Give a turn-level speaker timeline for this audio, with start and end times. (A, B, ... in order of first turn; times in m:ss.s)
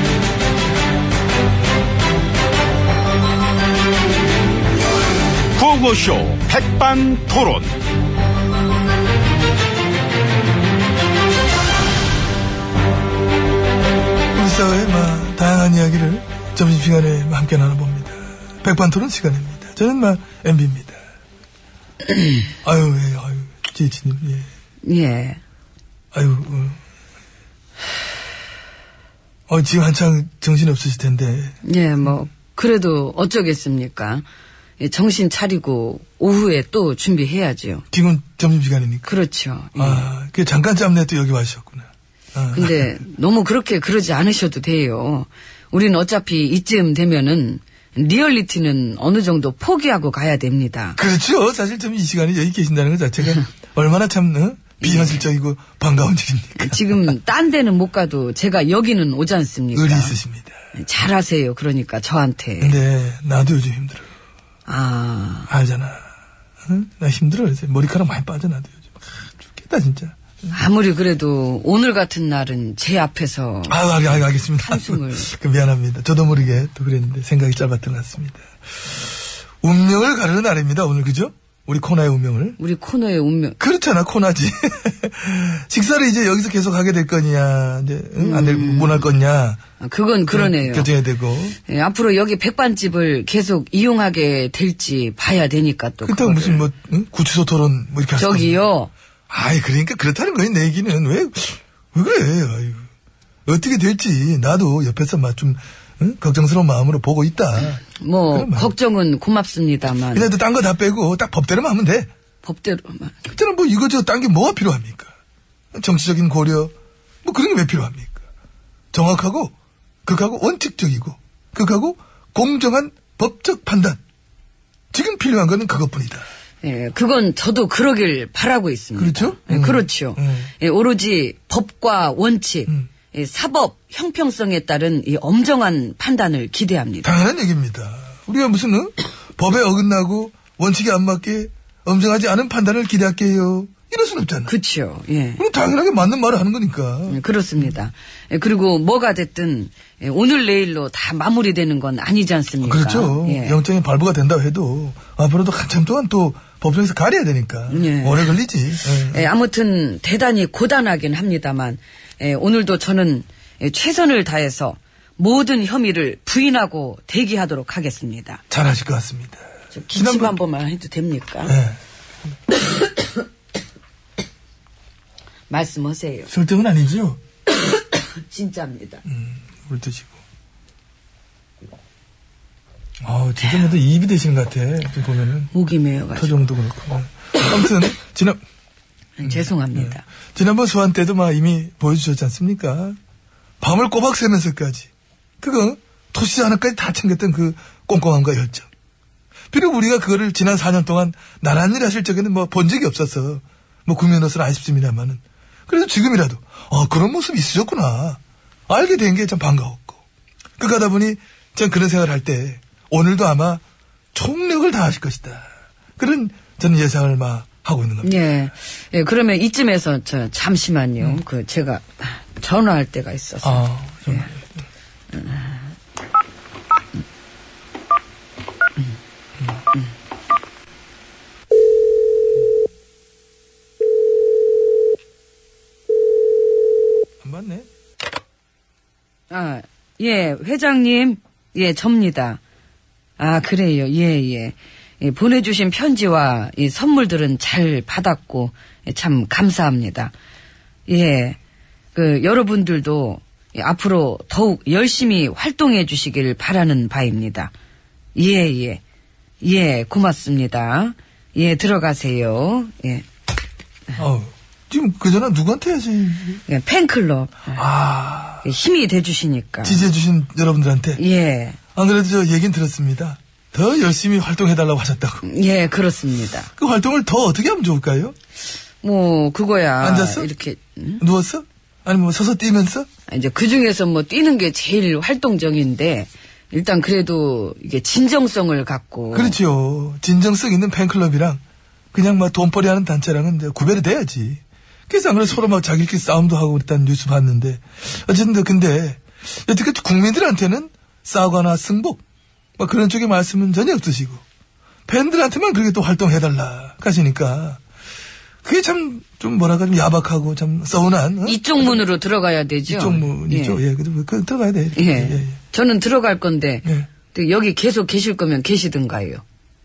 0:05.6-0:07.7 A
0:14.3-0:21.0 B
0:22.6-0:24.5 B
0:24.8-0:25.4 C
0:26.1-0:26.8 B
0:29.5-0:31.6 B
0:31.6-0:34.3 C
0:34.8-0:37.8 C
0:37.9-0:39.2 B
0:39.1-0:40.1 C
0:39.8-0:42.9 B
0:42.5-0:51.0 C
0:51.0-0:57.1 B
0:54.8-0:55.3 C
0:56.6-1:00.2 C
0:59.7-1:00.6 B
1:00.7-1:02.8 C
1:02.6-1:04.1 B
1:04.7-1:05.5 C
1:05.5-1:06.1 B
1:06.7-1:10.2 B
1:10.5-1:15.3 C
1:13.7-1:19.0 B
1:19.6-1:22.6 B
1:22.6-1:23.6 C
1:23.6-1:29.6 B
1:28.2-1:29.1 C
1:29.8-1:30.9 C
1:30.3-1:31.6 B
1:31.6-1:36.7 C
1:36.0-1:38.6 B
1:38.2-1:38.9 C
1:39.3-1:42.9 B
1:43.5-1:48.7 B
1:47.9-1:50.3 C
1:50.1-1:52.1 B
1:52.4-1:53.3 C
1:53.3-1:55.1 B
1:55.7-1:56.7 B
1:57.2-1:58.2 B
1:58.9-1:59.5 B
2:00.1-2:04.0 B
2:04.9-2:06.3 B
2:06.6-2:17.1 C
2:09.0-2:10.5 B
2:17.0-2:24.5 B
2:24.5-2:25.4 C
2:25.4-2:27.8 B
2:27.1-2:33.6 C
2:32.6-2:39.3 B
2:37.7-2:48.4 C
2:48.5-2:50.4 B
2:49.7-2:51.6 C
2:51.4-2:51.8 B
2:55.5-2:56.3 C
2:56.3-2:57.2 B
2:57.9-2:59.0 C
2:59.1-3:00.2 B
3:03.0-3:05.5 B
3:05.5-3:06.4 C
3:06.2-3:08.4 B
3:09.2-3:10.0 C
3:09.2-3:13.0 B
3:13.6-3:14.9 B
3:15.4-3:18.7 B
3:19.5-3:30.0 B
3:30.6-3:33.6 B
3:34.1-3:38.2 B
3:38.0-3:44.3 C
3:43.4-3:44.5 B
3:45.1-3:45.7 C
3:57.2-3:57.7 B
3:59.3-4:02.4 C
4:03.2-4:10.1 C
4:10.9-4:11.4 C
4:11.9-4:17.5 C
4:18.2-4:18.8 C
4:19.4-4:23.0 C
4:24.0-4:26.4 B
4:26.5-4:27.6 C
4:27.5-4:28.5 B
4:28.4-4:29.9 C
4:29.6-4:31.0 B
4:31.0-4:31.6 C
4:31.8-4:35.2 B
4:35.2-4:36.5 C
4:36.6-4:38.2 B
4:38.8-4:41.0 C
4:39.8-4:40.3 B
4:41.0-4:42.9 B
4:43.1-4:49.4 C
4:49.1-4:51.4 B
4:51.9-5:02.0 B
5:02.6-5:04.2 B
5:04.9-5:07.6 B
5:08.4-5:11.9 B
5:11.2-5:13.6 C
5:12.7-5:15.4 B
5:14.8-5:19.2 C
5:16.6-5:16.9 B